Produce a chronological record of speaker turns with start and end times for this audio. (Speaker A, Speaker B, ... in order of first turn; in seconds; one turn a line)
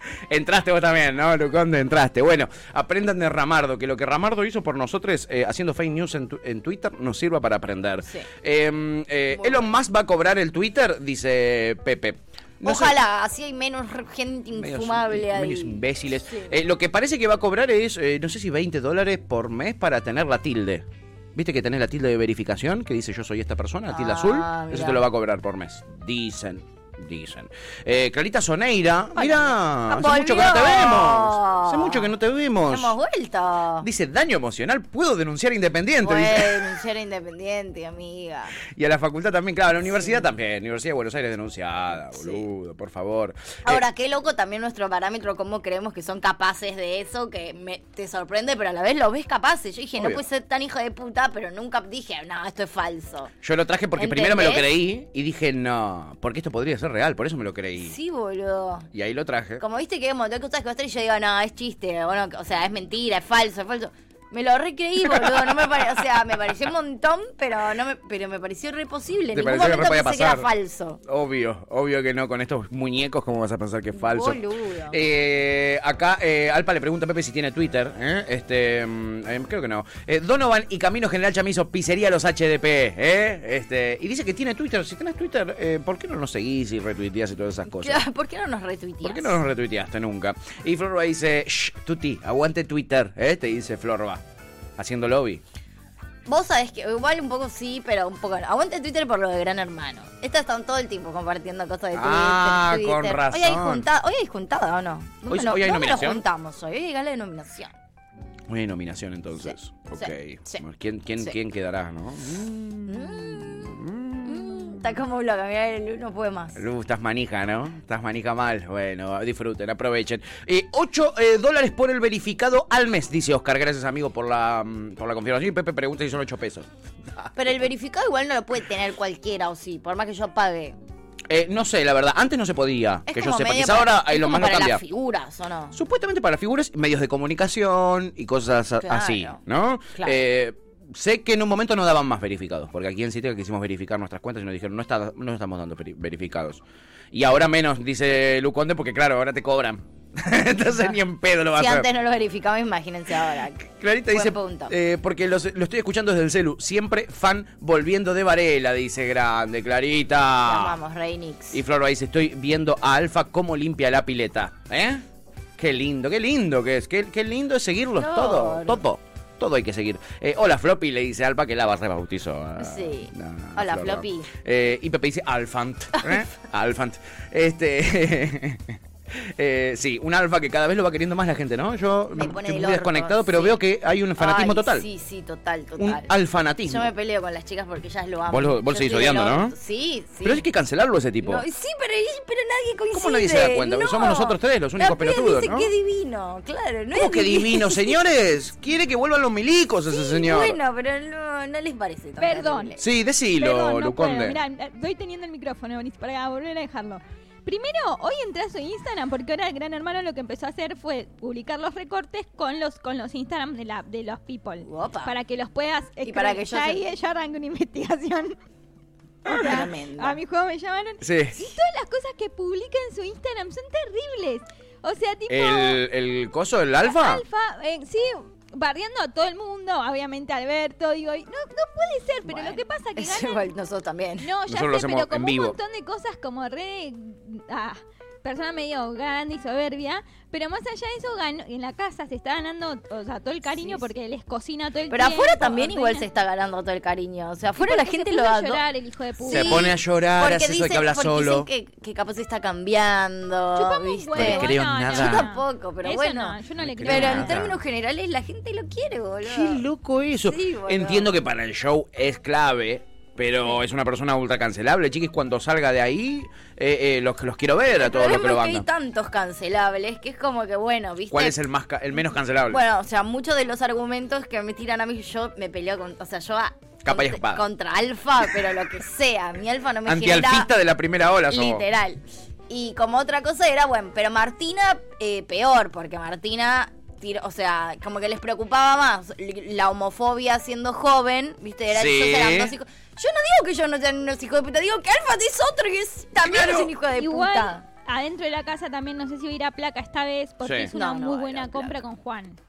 Speaker A: 0.3-12.9
Speaker B: 9.3-9.7
Speaker B: 12.6-16.5
Speaker A: 14.6-32.9
Speaker B: 23.9-25.0
Speaker B: 29.1-32.1
Speaker B: 32.7-33.9
Speaker A: 33.8-36.7
Speaker B: 36.0-38.5
Speaker A: 38.8-43.8
Speaker B: 39.8-40.3
Speaker B: 42.1-42.4
Speaker B: 43.6-53.3
Speaker A: 53.4-58.0
Speaker B: 54.0-54.7
Speaker B: 57.8-58.9
Speaker A: 58.9-59.6
Speaker B: 59.6-71.0
Speaker A: 65.2-65.7
Speaker A: 69.3-70.5
Speaker A: 71.0-74.4
Speaker B: 73.9-75.0
Speaker A: 74.9-88.0
Speaker B: 87.7-89.4
Speaker A: 89.0-94.2
Speaker A: 94.8-95.4
Speaker B: 96.3-107.7
Speaker A: 101.9-103.9
Speaker A: 105.3-106.2
Speaker A: 108.5-114.7
Speaker B: 109.4-110.6
Speaker B: 112.8-116.6
Speaker A: 116.5-126.7
Speaker B: 127.3-130.8
Speaker A: 131.3-134.8
Speaker B: 133.1-135.8
Speaker A: 135.7-151.9
Speaker B: 138.8-139.4
Speaker B: 151.6-154.7
Speaker A: 153.6-160.8
Speaker B: 160.4-161.6
Speaker A: 161.5-165.0
Speaker A: 165.6-184.8
Speaker B: 168.0-168.8
Speaker B: 172.6-174.3
Speaker B: 182.1-183.6
Speaker B: 184.2-186.1
Speaker A: 185.8-186.9
Speaker B: 186.7-190.4
Speaker A: 188.3-189.5
Speaker A: 190.2-191.4
Speaker B: 191.2-198.0
Speaker A: 192.9-195.7
Speaker A: 196.9-200.6
Speaker B: 199.9-202.8
Speaker C: 202.2-202.8
Speaker A: 202.8-204.4
Speaker C: 203.4-218.3
Speaker B: 214.6-215.1
Speaker B: 216.0-216.8
Speaker C: 219.2-225.8
Speaker B: 219.2-220.2
Speaker A: 221.0-221.3
Speaker A: 225.3-227.2
Speaker C: 226.8-233.5
Speaker B: 232.2-234.3
Speaker C: 234.2-246.1
Speaker A: 234.5-235.6
Speaker B: 243.5-243.9
Speaker B: 244.9-248.6
Speaker C: 247.6-249.7
Speaker B: 249.2-259.6
Speaker A: 249.3-251.5
Speaker C: 253.6-257.5
Speaker A: 254.1-255.3
Speaker A: 256.6-257.6
Speaker A: 259.2-268.6
Speaker B: 260.2-261.1
Speaker B: 267.7-271.4
Speaker A: 271.1-272.6
Speaker B: 272.5-280.5
Speaker A: 276.8-277.4
Speaker A: 279.9-281.6
Speaker B: 281.3-297.6
Speaker A: 291.7-292.5
Speaker A: 296.2-296.7
Speaker C: 296.9-302.4
Speaker A: 300.4-300.7
Speaker B: 300.7-301.8